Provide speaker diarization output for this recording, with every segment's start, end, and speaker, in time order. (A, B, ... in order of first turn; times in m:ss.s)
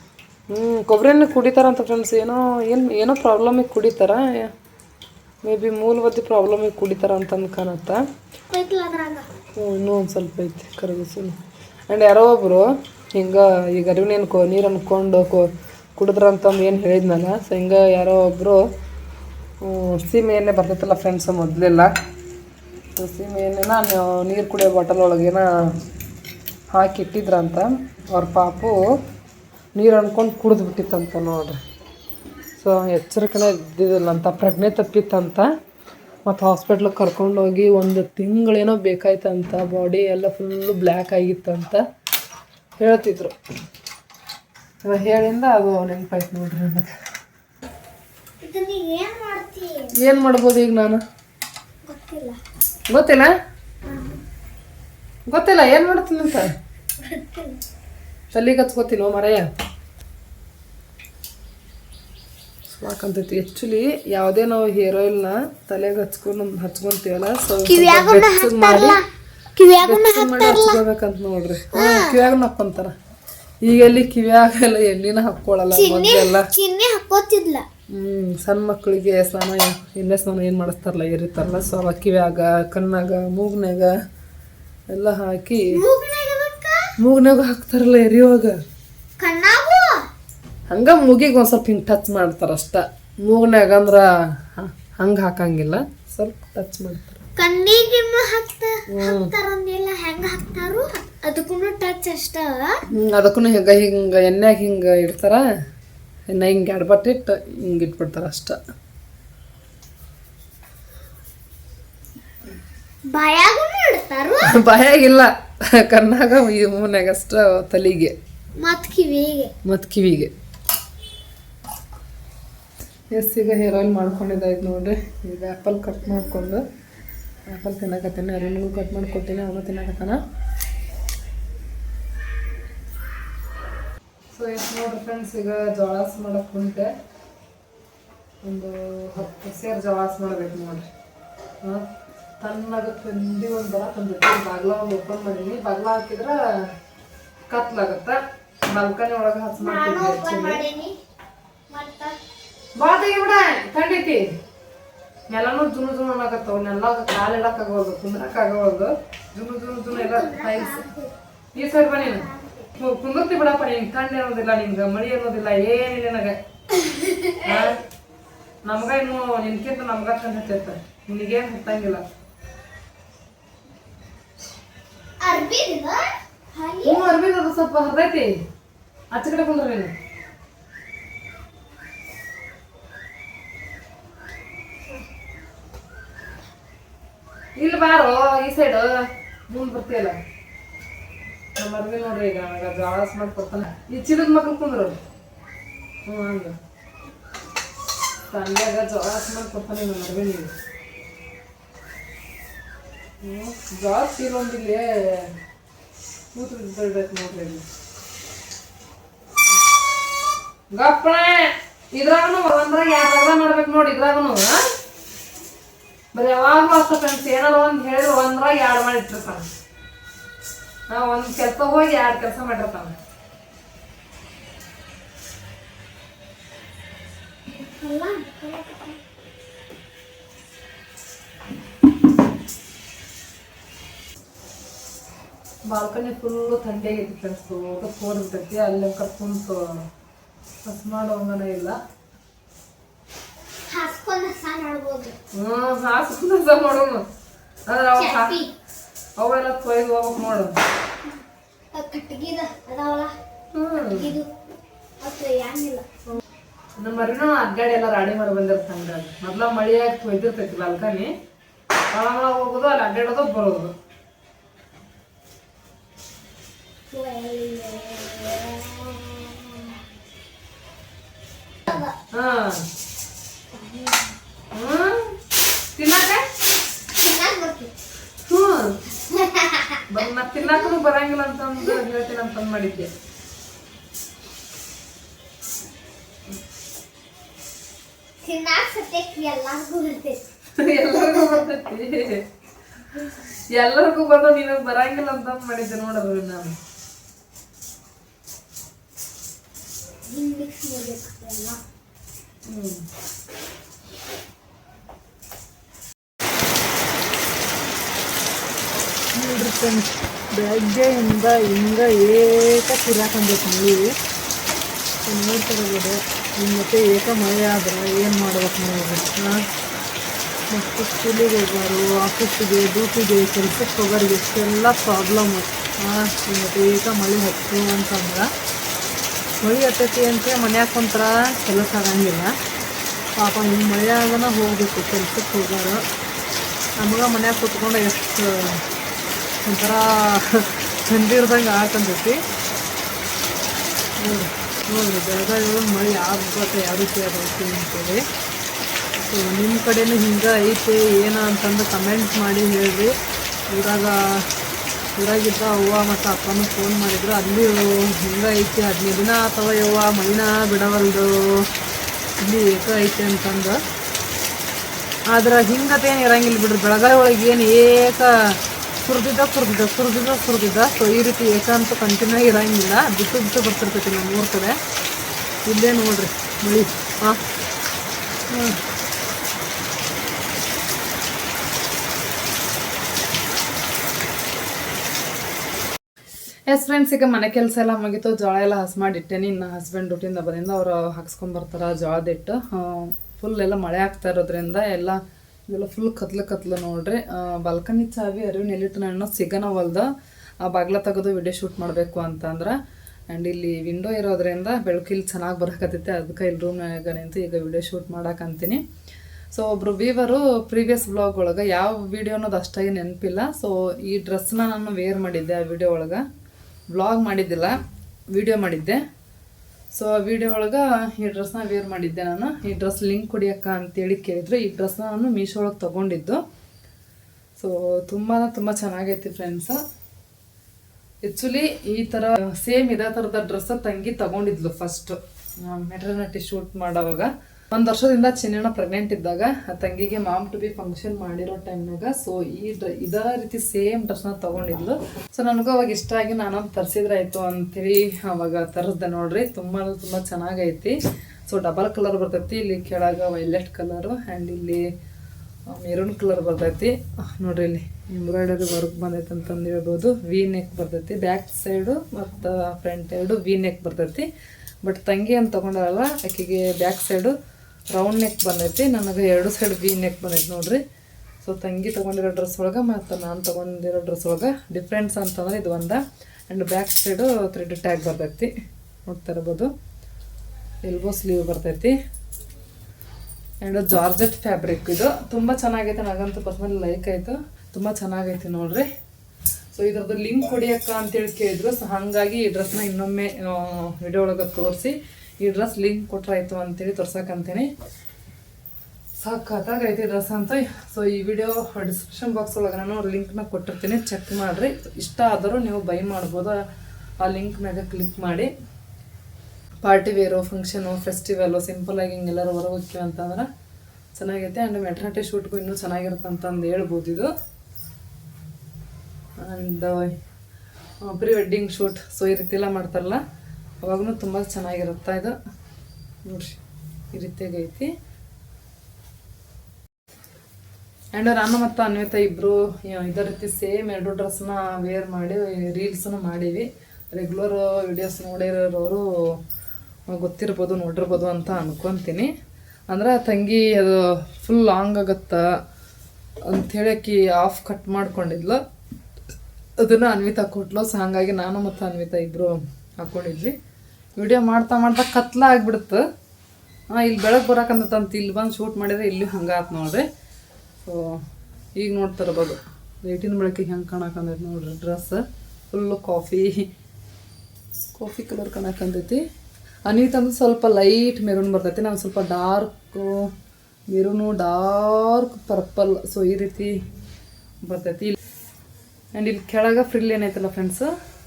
0:00.5-0:04.5 A
0:05.4-0:08.0 A
0:08.5-0:09.3 B
0:09.6-0:11.4 A
0:11.9-0:18.6 A
0:19.6-0:21.9 A
0:23.0-0:25.5 A
0:26.7-0:29.0 A
0:29.8-0:31.6 A
0:32.6-0:35.5 A
0:36.2-0:41.8 A
0:42.8-0:43.4 A
0:44.8-0:47.0 A
0:48.4-0:49.9 B
0:50.0-0:51.0 A
0:51.8-0:52.4 B
0:52.9-0:53.3 A
0:53.9-0:54.2 B
0:55.3-0:56.5 A
0:57.0-0:57.6 B
0:58.3-0:59.5 A
1:02.8-1:09.0 A
1:07.6-1:10.8 B
1:09.8-1:12.9 A
1:11.7-1:12.2 B
1:13.6-1:16.5 A
1:15.7-1:17.7 B
1:17.9-1:23.9 A
1:24.9-1:25.8 A
1:25.7-1:26.9 B
1:27.0-1:28.6 A
1:29.2-1:30.0 B
1:30.7-1:37.2 A
1:37.4-1:42.8 B
1:38.9-1:39.3 A
1:42.9-1:45.4 A
1:46.3-1:48.6 A
1:53.1-1:54.6 B
1:54.5-1:58.1 A
1:58.6-1:59.5 B
1:59.6-2:00.3 A
2:03.1-2:06.6 A
2:07.5-2:10.2 A
2:14.3-2:16.9 A
2:18.4-2:20.8 A
2:22.4-2:26.4 A
2:27.5-2:28.2 A
2:28.7-2:30.6 A
2:29.6-2:30.9 B
2:31.7-2:32.2 B
2:32.8-2:34.3 A
2:35.3-2:40.8 A
2:39.9-2:41.1 B
2:41.6-2:46.4 A
2:41.9-2:42.7 B
2:46.7-2:47.7 B
2:47.4-2:47.8 A
2:48.6-2:52.0 A
2:55.2-2:57.1 B
2:56.8-2:58.4 A
2:59.1-2:59.9 A
3:07.6-3:10.2 A
3:11.6-3:15.0 A
3:16.1-3:16.6 A
3:18.3-3:20.5 A
3:23.2-3:25.3 A
3:26.3-3:27.6 A
3:30.7-3:34.7 A
3:36.1-3:39.5 A
3:40.9-3:43.0 A
3:47.5-3:49.0 B
3:55.7-3:59.8 A
4:00.6-4:01.8 A
4:03.7-4:05.2 B
4:05.4-4:07.0 A
4:07.7-4:08.4 A
4:08.0-4:08.6 B
4:09.2-4:10.6 A
4:11.7-4:13.2 B
4:13.5-4:14.1 A
4:13.8-4:14.3 B
4:15.0-4:15.9 B
4:16.8-4:21.1 A
4:21.9-4:23.7 A
4:26.9-4:29.8 B
4:31.7-4:32.0 B
4:31.7-4:32.6 A
4:33.5-4:34.2 B
4:34.5-4:35.2 A
4:35.8-4:36.3 A
4:37.0-4:37.7 B
4:38.2-4:38.8 A
4:39.0-4:39.9 B
4:39.9-4:42.9 A
4:40.4-4:40.7 B
4:48.2-4:50.2 B
4:50.6-4:52.3 A
4:50.9-4:51.5 B
4:53.5-4:56.6 A
5:00.1-5:01.6 B
5:02.5-5:02.8 A
5:09.1-5:14.0 A
5:15.0-5:19.4 A
5:20.5-5:28.3 A
5:29.4-5:32.4 A
5:33.2-5:35.8 A
5:36.8-5:38.6 A
5:39.4-5:42.2 A
5:44.0-5:48.0 A
5:49.0-5:52.9 A
5:53.5-5:54.3 A
5:55.0-6:01.5 A
6:02.2-6:03.6 A
6:05.1-6:14.6 A
6:15.5-6:17.2 A
6:18.3-6:18.6 A
6:26.5-6:39.9 A
6:40.4-6:42.6 A
6:43.1-6:48.6 A
6:49.3-6:56.0 A
6:56.7-6:57.6 A
6:58.1-6:58.8 A
6:59.7-7:06.2 A
7:07.4-7:09.6 A
7:11.0-7:30.8 A
7:31.3-7:34.6 A
7:35.5-7:44.1 A
7:44.6-7:47.2 A
7:47.7-7:50.6 A
7:51.2-7:58.3 A
7:58.9-7:59.5 A
8:00.6-8:01.8 A
8:03.4-8:08.7 A
8:09.6-8:17.5 A
8:19.0-8:26.4 A
8:27.0-8:28.3 A
8:29.6-8:33.3 A
8:33.9-8:37.1 A
8:39.2-8:39.9 A
8:40.8-8:43.0 A
8:43.6-8:45.2 A
8:46.0-8:46.4 A
8:46.9-8:47.7 A
8:51.0-8:59.2 A
8:59.9-9:02.1 A
9:02.7-9:05.3 A
9:06.2-9:08.4 A
9:09.6-9:13.4 A
9:14.0-9:15.8 A
9:16.7-9:19.9 A
9:20.6-9:21.0 A
9:21.6-9:26.5 A
9:27.7-9:29.0 A
9:29.7-9:33.1 A
9:33.7-9:36.6 A
9:37.4-9:38.0 A
9:39.0-9:40.7 A